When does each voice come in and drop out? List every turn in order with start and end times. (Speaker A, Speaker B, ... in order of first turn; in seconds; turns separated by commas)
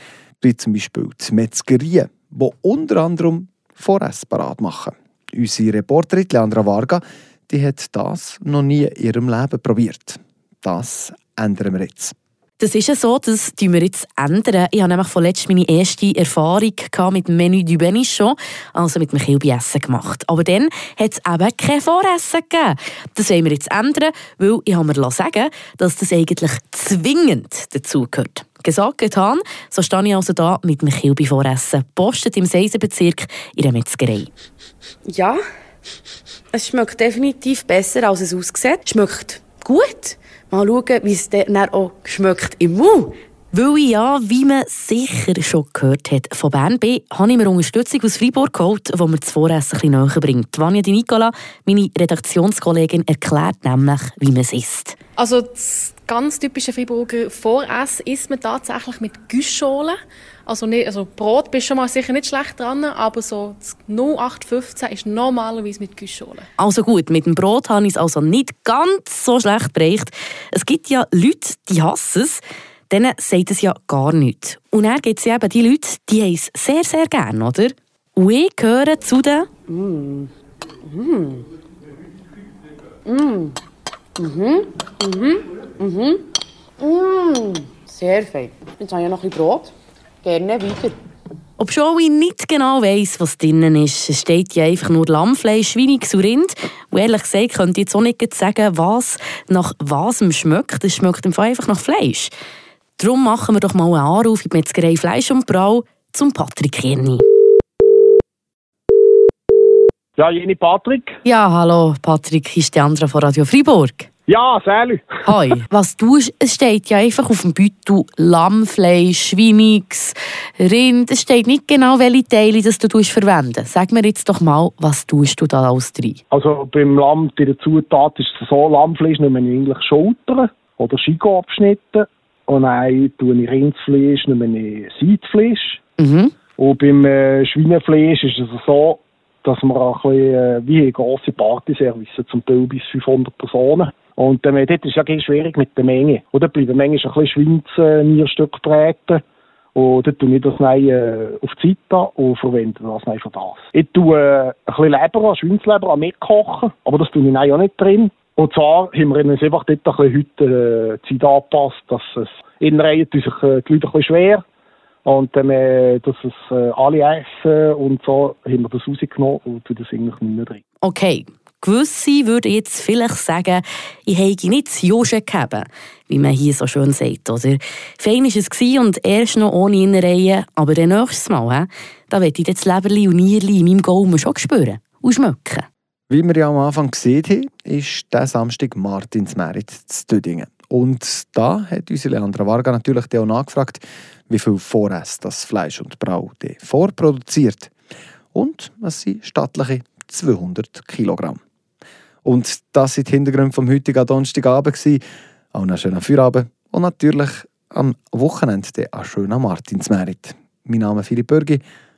Speaker A: 0.4-12.1, Speaker B: 12.6-34.3, Speaker C: 35.1-35.4, Speaker C: 36.5-43.1, Speaker B: 43.5-55.0, Speaker D: 55.2-66.5, Speaker B: 66.6-79.5, Speaker C: 79.7-80.3, Speaker C: 80.8-81.5, Speaker C: 83.0-83.6, Speaker C: 84.2-86.2, Speaker C: 86.8-91.0, Speaker B: 91.6-102.3, Speaker B: 103.0-107.2, Speaker E: 110.2-111.2, Speaker B: 111.2-114.1, Speaker E: 114.3-115.1, Speaker B: 115.3-126.2, Speaker E: 126.3-135.8, Speaker B: 136.0-136.3, Speaker E: 136.6-149.2, Speaker E: 149.7-164.4, Speaker E: 165.1-170.6, Speaker B: 170.8-185.7, Speaker A: 186.1-197.7, Speaker A: 198.3-201.4, Speaker A: 202.2-205.0, Speaker A: 205.5-211.6